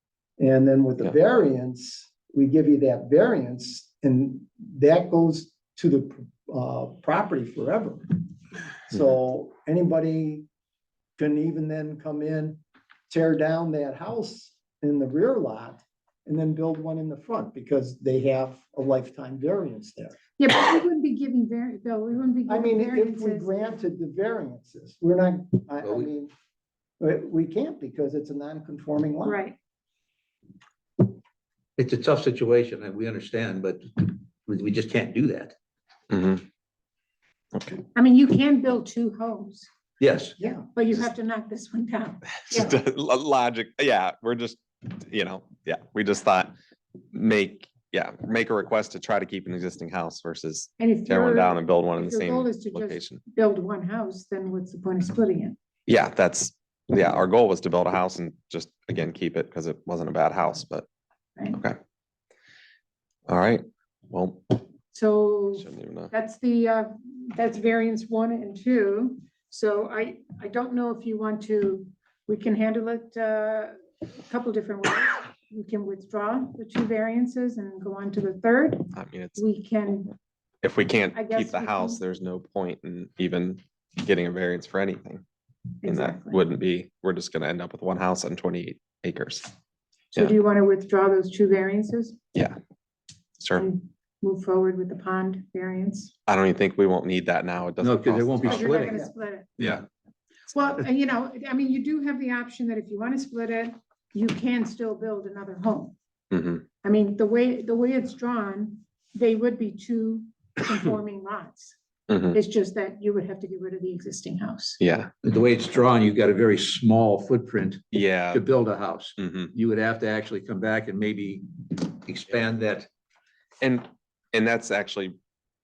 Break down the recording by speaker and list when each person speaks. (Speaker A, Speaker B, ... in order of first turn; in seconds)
Speaker A: 0.4-8.2, 8.9-10.5, 11.2-20.2, 22.5-26.3, 27.0-29.4, 40.4-40.7
Speaker B: 20.4-23.8, 29.2-29.6, 38.0-39.7, 40.8-42.8, 50.8-55.6, 64.9-80.2, 81.2-82.0, 85.8-86.4, 90.1-92.2, 93.6-96.1, 98.4-99.7, 100.5-106.0, 106.8-111.8, 112.3-114.8
Speaker C: 25.8-26.1, 31.8-35.5, 40.0-40.4, 97.8-98.9, 115.2-122.9
Speaker D: 36.1-36.4, 37.5-37.8, 42.5-46.5, 47.1-53.2, 55.9-60.9, 63.3-64.6, 65.6-66.1, 78.9-79.4, 80.6-85.2, 85.8-89.5, 93.4-93.7, 96.3-98.9, 99.6-99.8, 106.3-106.6, 112.1-112.4, 114.8-115.1, 117.9-118.4, 119.2-119.5, 123.6-125.2